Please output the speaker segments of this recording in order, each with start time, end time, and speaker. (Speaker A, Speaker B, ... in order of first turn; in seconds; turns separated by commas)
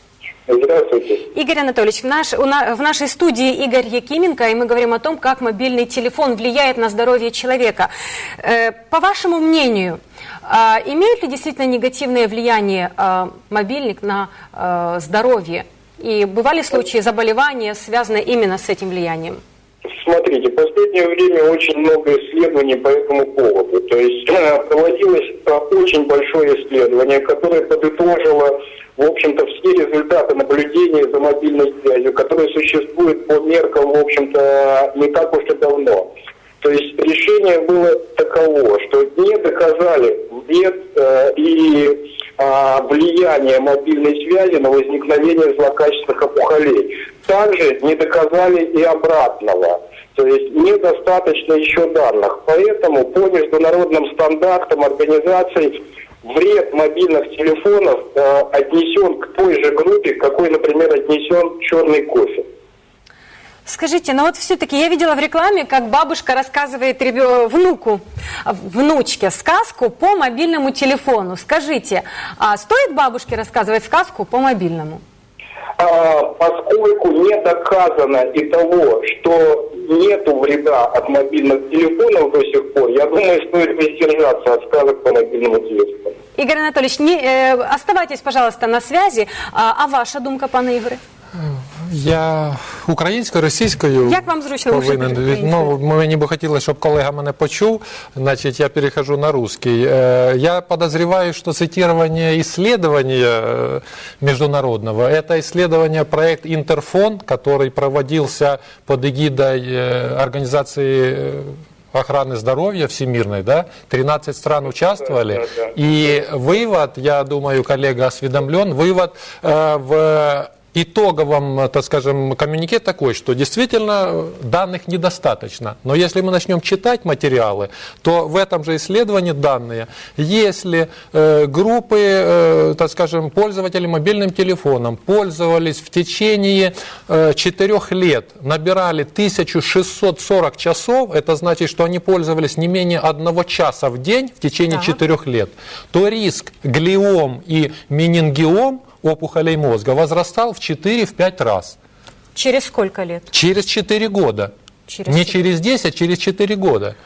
Speaker A: 0.5-1.2, Speaker B: 1.3-19.4, Speaker A: 20.0-36.1, Speaker A: 36.6-62.5, Speaker B: 63.6-75.0, Speaker A: 75.8-86.1, Speaker B: 86.3-91.0, Speaker C: 91.4-151.8, Speaker B: 94.0-95.7, Speaker B: 144.7-144.9, Speaker B: 152.3-153.3, Speaker C: 153.3-154.5, Speaker B: 154.9-155.4, Speaker C: 155.1-156.9